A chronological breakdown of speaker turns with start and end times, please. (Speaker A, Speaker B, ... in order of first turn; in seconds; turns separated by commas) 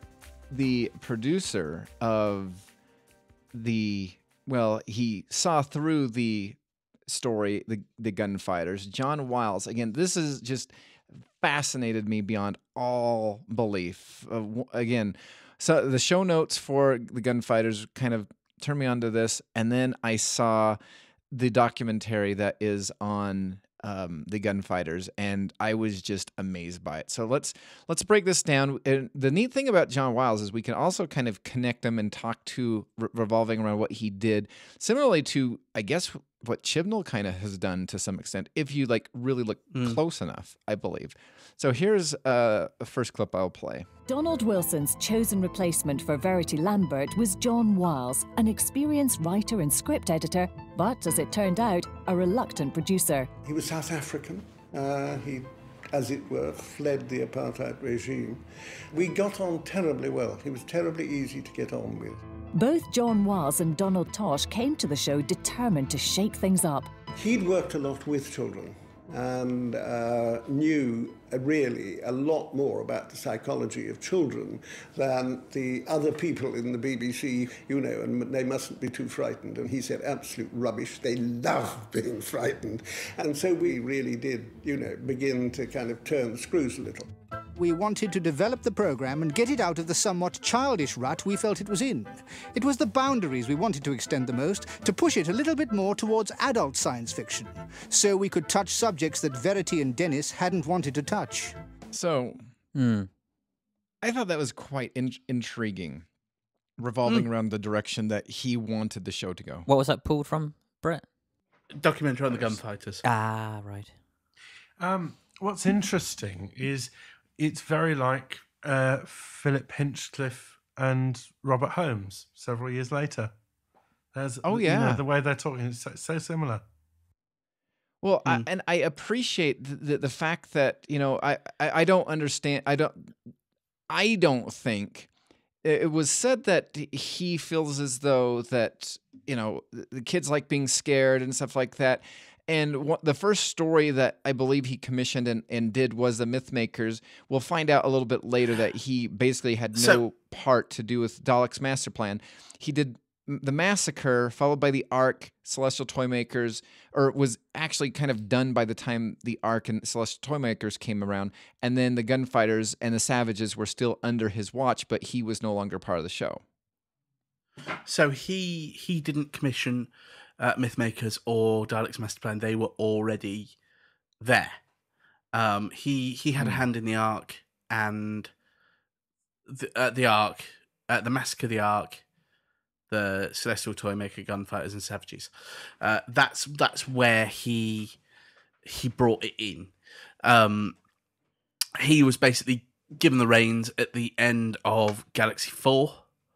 Speaker A: 0.5-2.7, Speaker A: 3.5-20.8, Speaker A: 21.3-43.9, Speaker B: 39.7-40.0, Speaker C: 44.1-53.3, Speaker D: 53.4-62.2, Speaker C: 62.5-66.9, Speaker D: 67.2-87.1, Speaker E: 87.6-101.5, Speaker A: 101.9-102.4, Speaker F: 102.7-103.1, Speaker A: 104.0-106.0, Speaker A: 106.8-109.7, Speaker F: 109.7-111.0, Speaker B: 111.7-113.0, Speaker A: 112.3-112.6, Speaker F: 113.0-113.9, Speaker G: 114.8-123.3, Speaker G: 124.1-126.6, Speaker A: 124.4-125.0, Speaker A: 128.0-133.1, Speaker A: 133.9-135.1, Speaker A: 135.6-166.4, Speaker B: 149.7-150.0, Speaker B: 167.8-173.6, Speaker B: 174.2-174.6, Speaker B: 175.3-178.3, Speaker A: 176.4-176.6, Speaker B: 179.4-182.0, Speaker B: 182.9-188.0, Speaker B: 188.6-190.8, Speaker B: 191.8-196.0